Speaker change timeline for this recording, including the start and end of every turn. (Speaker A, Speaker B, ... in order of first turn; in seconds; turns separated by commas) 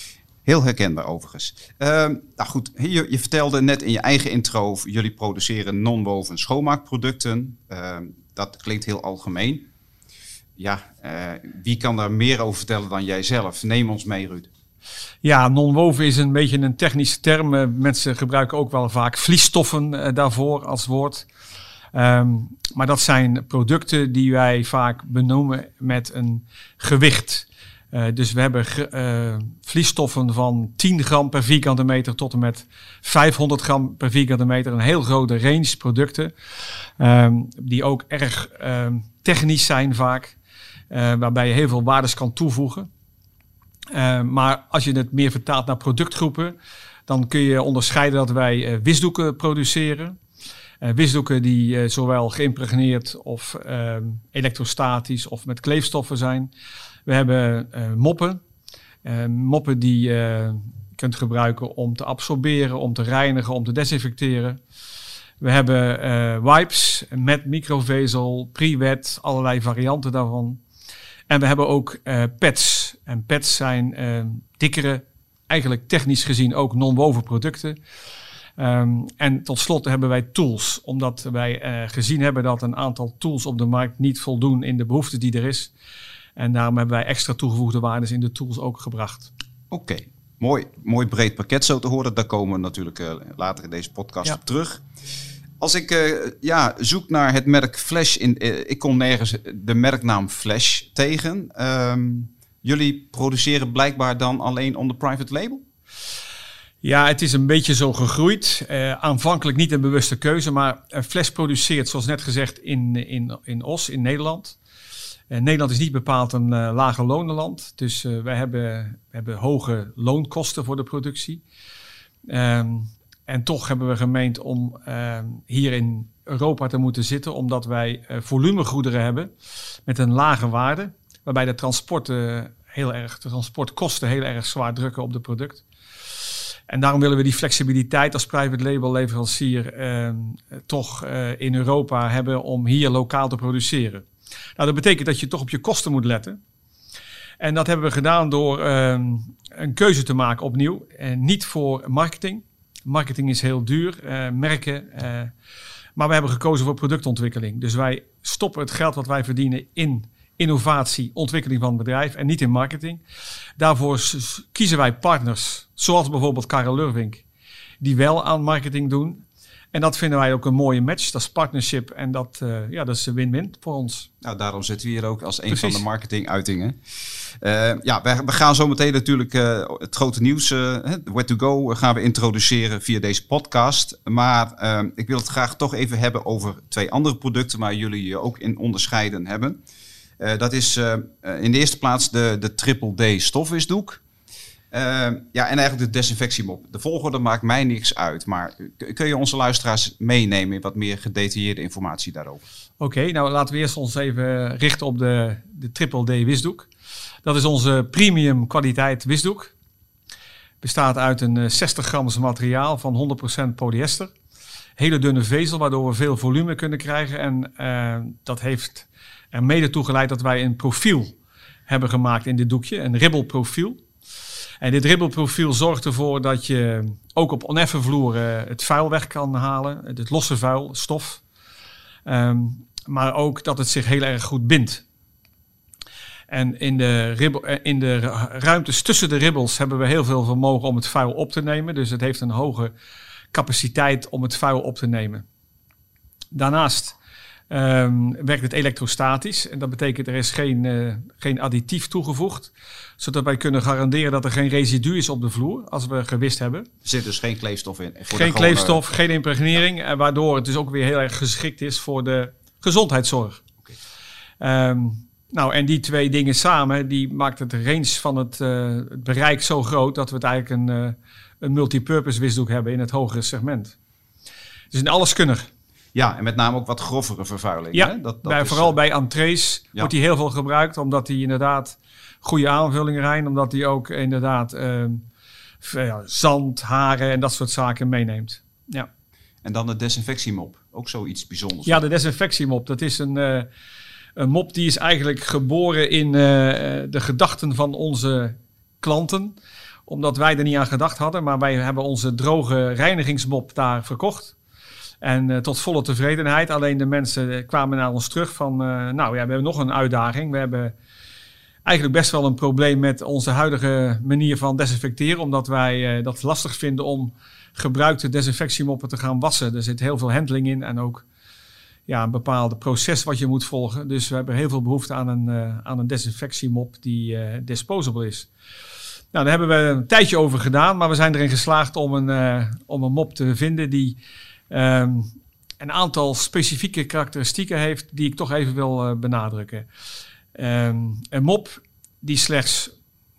Speaker A: 0.4-9.7, Speaker A: 10.6-14.5, Speaker B: 15.2-21.2, Speaker B: 21.9-36.3, Speaker B: 37.0-40.4, Speaker B: 40.9-42.9, Speaker B: 43.9-46.5, Speaker B: 47.1-50.2, Speaker B: 50.8-56.5, Speaker B: 57.1-58.4, Speaker B: 59.0-64.6, Speaker B: 65.4-70.6, Speaker B: 71.3-77.8, Speaker B: 78.6-85.7, Speaker B: 86.4-89.3, Speaker A: 89.7-94.8, Speaker A: 95.6-105.6, Speaker B: 106.8-114.6, Speaker B: 115.3-121.4, Speaker B: 122.3-129.3, Speaker B: 129.9-135.6, Speaker B: 136.7-144.1, Speaker B: 144.6-146.4, Speaker B: 147.4-155.3, Speaker B: 155.9-163.0, Speaker B: 163.6-167.2, Speaker B: 167.8-174.1, Speaker A: 174.2-176.8, Speaker B: 175.5-175.8, Speaker A: 177.4-189.6, Speaker A: 190.2-194.0, Speaker A: 194.7-202.4, Speaker B: 202.8-206.7, Speaker B: 207.2-209.5, Speaker B: 210.6-214.1, Speaker B: 214.8-221.2, Speaker B: 221.7-223.8, Speaker B: 224.6-231.2, Speaker B: 232.1-234.8, Speaker B: 236.3-242.7, Speaker B: 243.3-245.2, Speaker B: 246.3-246.9, Speaker B: 247.5-256.7, Speaker A: 256.8-258.8, Speaker B: 258.1-263.4, Speaker B: 264.4-273.8, Speaker B: 274.7-275.5, Speaker A: 275.9-278.7, Speaker B: 277.7-285.0, Speaker B: 285.6-288.9, Speaker A: 289.4-291.8, Speaker B: 291.7-293.5, Speaker B: 294.2-299.3, Speaker B: 299.9-304.3, Speaker B: 305.0-310.7, Speaker B: 311.6-321.1, Speaker B: 321.9-328.3, Speaker B: 329.1-334.0, Speaker B: 334.5-339.7, Speaker B: 340.3-342.7